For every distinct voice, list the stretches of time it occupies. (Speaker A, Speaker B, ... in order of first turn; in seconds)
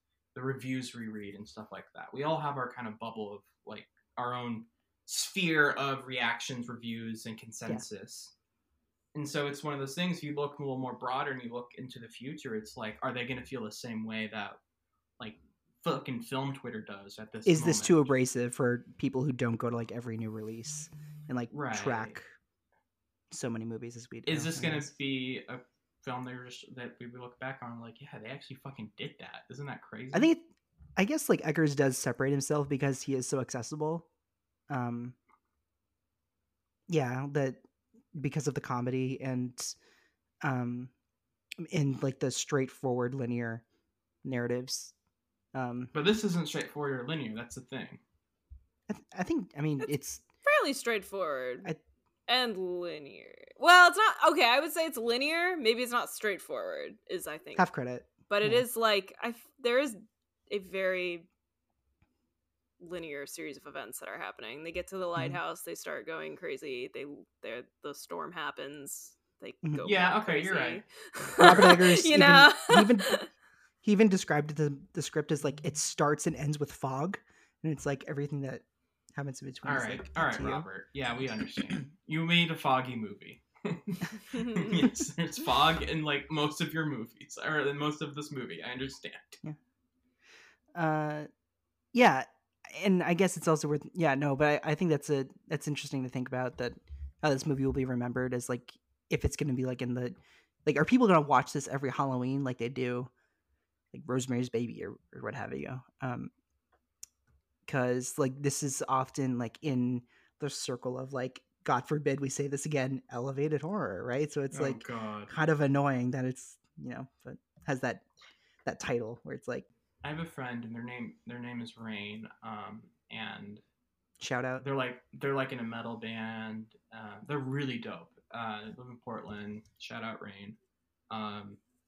Speaker A: 0.3-8.3, 9.1-14.6, 15.2-18.1, 21.5-22.1, 24.3-30.3, 45.9-48.0, 69.8-70.8, 71.4-71.8, 79.6-89.4, 114.5-115.3, 120.0-123.6, 124.6-130.6, 131.1-131.6
Speaker B: 17.4-22.3, 23.3-24.9, 30.1-34.1, 34.7-35.2, 36.9-39.8, 40.4-40.9, 41.6-43.6, 44.2-44.9, 45.5-45.9, 48.9-50.2, 57.6-58.6, 69.6-69.9, 71.4-73.2, 73.8-80.7, 90.7-91.3, 91.9-103.1, 103.9-106.3, 107.7-118.1, 118.7-119.7, 124.2-124.6
Speaker C: 50.4-51.7, 52.3-57.7, 58.3-61.3, 62.8-73.3, 84.3-84.7